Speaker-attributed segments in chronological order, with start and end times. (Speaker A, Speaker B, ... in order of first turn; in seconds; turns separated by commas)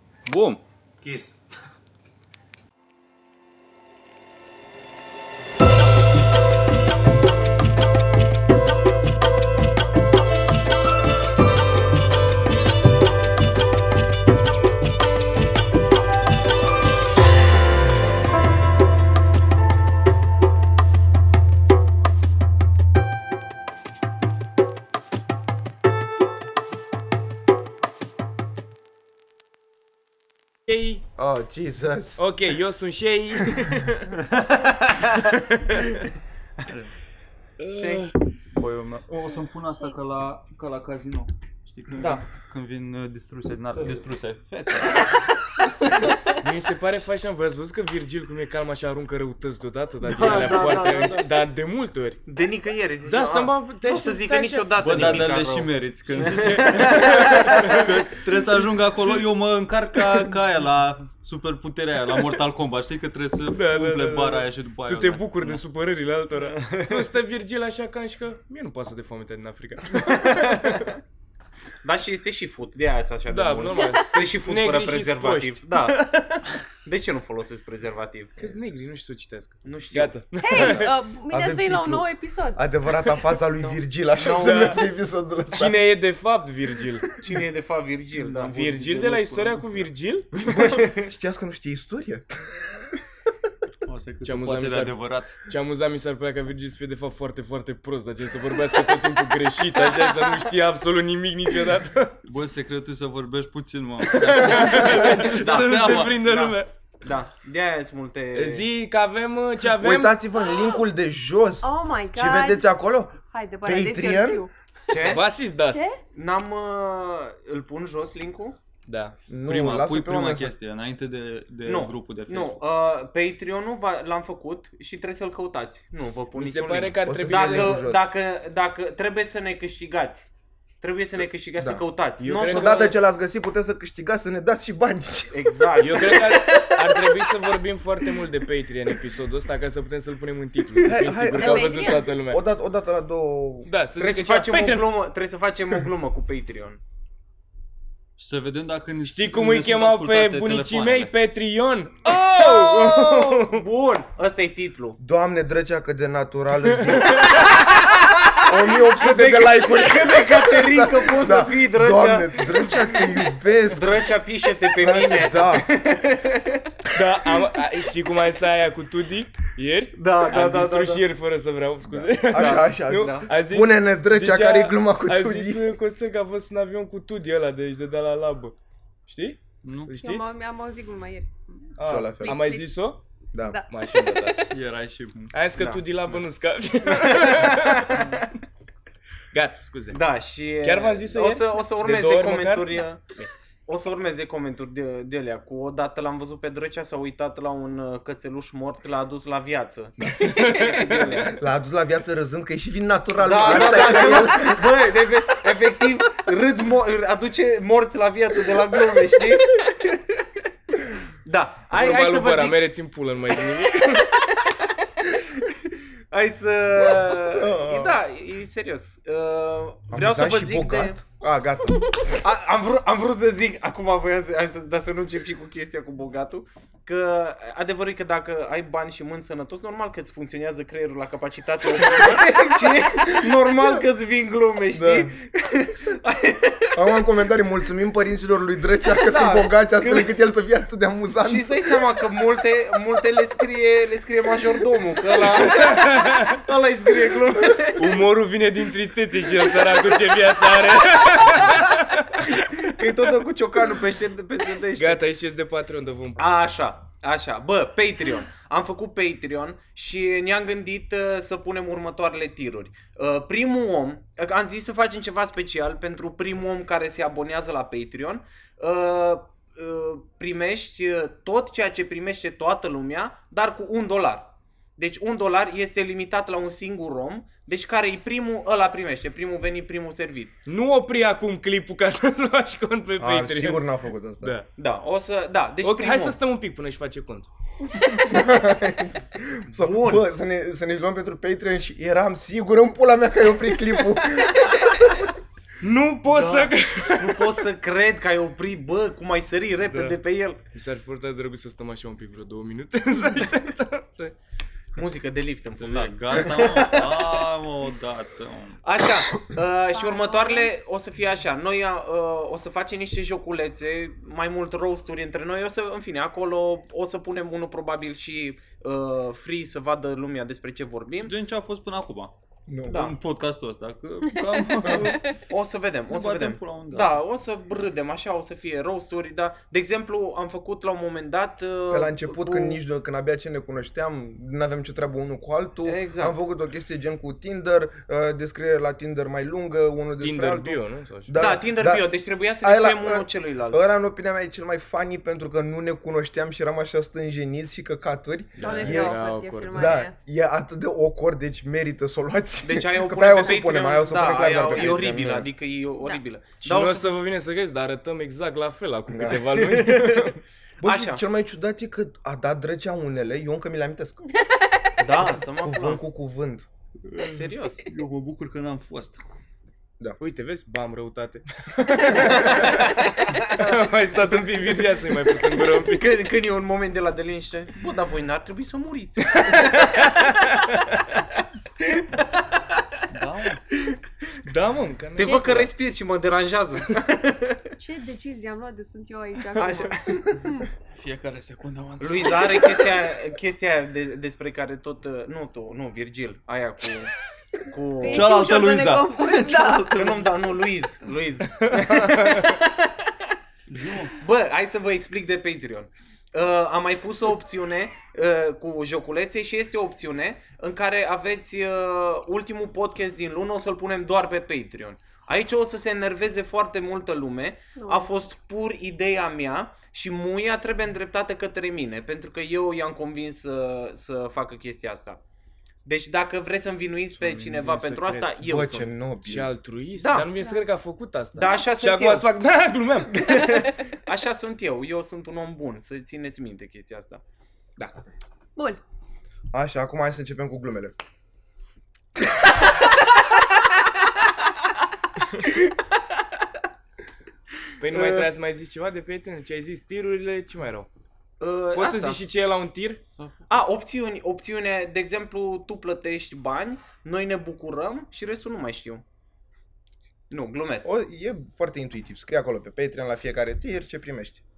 Speaker A: 0.2-0.6, Speaker B: 1.0-1.4, Speaker B: 30.7-31.0, Speaker C: 31.1-32.2, Speaker B: 32.2-34.2, Speaker D: 34.3-35.3, Speaker B: 35.2-36.0, Speaker A: 36.6-36.9, Speaker B: 37.6-38.2, Speaker D: 37.8-38.1, Speaker A: 38.5-45.2, Speaker E: 39.2-39.9, Speaker D: 42.0-42.2, Speaker B: 46.3-52.2, Speaker D: 50.0-51.3, Speaker D: 52.3-57.8, Speaker B: 53.0-55.3, Speaker A: 54.8-65.6, Speaker B: 56.1-57.9, Speaker B: 63.5-70.8, Speaker D: 69.9-71.0, Speaker D: 71.8-78.8, Speaker B: 73.3-75.7, Speaker E: 73.7-74.1, Speaker B: 78.4-80.9, Speaker D: 79.6-80.2, Speaker E: 80.4-82.6, Speaker C: 81.3-85.8, Speaker D: 83.6-84.8, Speaker B: 84.3-84.8, Speaker B: 85.5-87.1, Speaker D: 87.2-88.7, Speaker A: 88.2-89.8, Speaker B: 88.4-90.7, Speaker C: 90.5-92.6, Speaker D: 90.6-91.0, Speaker A: 93.8-95.4, Speaker B: 94.2-102.2, Speaker A: 102.2-106.1, Speaker B: 104.0-106.7, Speaker D: 104.8-108.7, Speaker B: 108.3-110.2, Speaker C: 109.8-114.4, Speaker E: 110.4-110.8, Speaker E: 111.6-112.7, Speaker E: 113.2-114.5, Speaker D: 114.9-115.2, Speaker B: 115.0-115.8, Speaker E: 115.1-116.0, Speaker D: 116.1-118.6, Speaker B: 118.9-119.2, Speaker C: 119.3-120.5, Speaker A: 119.5-122.6, Speaker D: 121.6-130.3, Speaker B: 126.3-127.8, Speaker C: 127.0-128.1, Speaker D: 130.8-132.9, Speaker C: 131.6-131.8, Speaker B: 132.2-132.9, Speaker C: 132.3-135.6, Speaker D: 135.3-137.3, Speaker B: 135.8-142.4, Speaker C: 140.8-143.7, Speaker E: 141.3-142.1, Speaker B: 143.7-144.8, Speaker D: 144.0-146.8, Speaker A: 148.2-151.1, Speaker B: 149.0-153.6, Speaker D: 152.1-155.0, Speaker C: 155.0-157.5, Speaker D: 158.1-163.1, Speaker C: 158.4-164.1, Speaker D: 163.7-166.6, Speaker C: 164.8-165.7, Speaker B: 166.9-178.5, Speaker D: 169.9-171.0, Speaker C: 171.8-175.7, Speaker D: 172.3-173.2, Speaker B: 179.1-180.3, Speaker A: 179.6-179.9, Speaker E: 180.0-182.8, Speaker B: 181.8-183.0, Speaker C: 181.8-182.4, Speaker C: 183.3-183.6, Speaker E: 183.4-184.4, Speaker B: 183.7-184.5, Speaker A: 184.5-185.3, Speaker B: 185.3-188.0, Speaker D: 185.6-186.2, Speaker D: 187.0-188.2, Speaker B: 189.3-190.0, Speaker D: 189.9-201.4, Speaker B: 190.6-192.8, Speaker B: 200.0-201.4, Speaker C: 201.3-204.6, Speaker D: 203.2-210.0, Speaker D: 211.2-212.6, Speaker B: 211.7-214.1, Speaker D: 216.1-221.0, Speaker C: 217.2-218.0, Speaker C: 219.9-221.8, Speaker D: 222.2-237.0, Speaker C: 234.7-235.1, Speaker C: 236.7-241.5, Speaker D: 238.9-240.1, Speaker D: 241.2-248.0, Speaker B: 245.3-246.3, Speaker B: 247.8-252.4, Speaker D: 249.6-249.9, Speaker D: 251.3-251.6, Speaker D: 252.2-255.0, Speaker B: 254.7-256.2, Speaker D: 256.2-280.3, Speaker B: 280.4-283.7, Speaker C: 283.0-284.3, Speaker B: 284.2-284.5, Speaker D: 284.6-286.2, Speaker B: 285.6-287.3, Speaker E: 287.8-288.1, Speaker C: 288.0-295.1, Speaker D: 289.5-290.0, Speaker B: 295.6-297.3, Speaker D: 296.0-300.4, Speaker B: 300.5-304.1, Speaker D: 304.8-307.3, Speaker A: 305.5-308.6, Speaker D: 308.6-321.1, Speaker E: 309.7-310.5, Speaker A: 321.1-322.1, Speaker C: 322.5-322.9, Speaker D: 322.7-323.0, Speaker A: 322.7-325.2, Speaker E: 324.6-324.9, Speaker D: 325.1-332.6, Speaker A: 325.9-327.0, Speaker C: 331.7-341.9, Speaker D: 335.6-336.1, Speaker B: 340.0-341.4, Speaker D: 341.1-343.6, Speaker C: 342.4-349.0, Speaker B: 348.4-349.9, Speaker E: 348.4-349.9, Speaker C: 349.5-355.3, Speaker D: 352.4-356.9, Speaker B: 356.4-360.2, Speaker C: 358.9-359.5, Speaker D: 359.5-360.1, Speaker C: 360.6-364.0, Speaker D: 360.6-361.0, Speaker D: 364.8-365.8, Speaker C: 365.0-366.5, Speaker A: 366.9-369.0, Speaker D: 367.0-367.7, Speaker B: 370.0-375.9, Speaker D: 371.8-380.1, Speaker B: 379.2-380.8, Speaker D: 381.6-382.3, Speaker A: 382.9-383.4, Speaker B: 384.2-385.5, Speaker D: 385.0-387.5, Speaker E: 385.0-385.5, Speaker E: 387.6-390.4, Speaker D: 389.4-390.2, Speaker A: 390.7-392.7, Speaker D: 391.8-398.1, Speaker E: 397.8-399.8, Speaker A: 397.9-400.2, Speaker D: 399.7-402.9, Speaker B: 401.4-402.3, Speaker A: 403.5-403.9, Speaker D: 404.0-425.0, Speaker E: 417.6-417.9, Speaker D: 425.6-428.7, Speaker B: 426.9-428.3, Speaker C: 428.2-429.3, Speaker B: 429.0-433.2, Speaker D: 429.8-430.1, Speaker E: 430.1-430.5, Speaker D: 431.1-432.1, Speaker E: 433.0-433.4, Speaker D: 433.0-437.0, Speaker C: 439.3-440.7, Speaker B: 447.6-450.7, Speaker D: 447.7-448.0, Speaker D: 451.2-452.0, Speaker B: 451.5-452.8, Speaker D: 453.3-458.8, Speaker D: 460.1-460.7, Speaker C: 460.6-464.2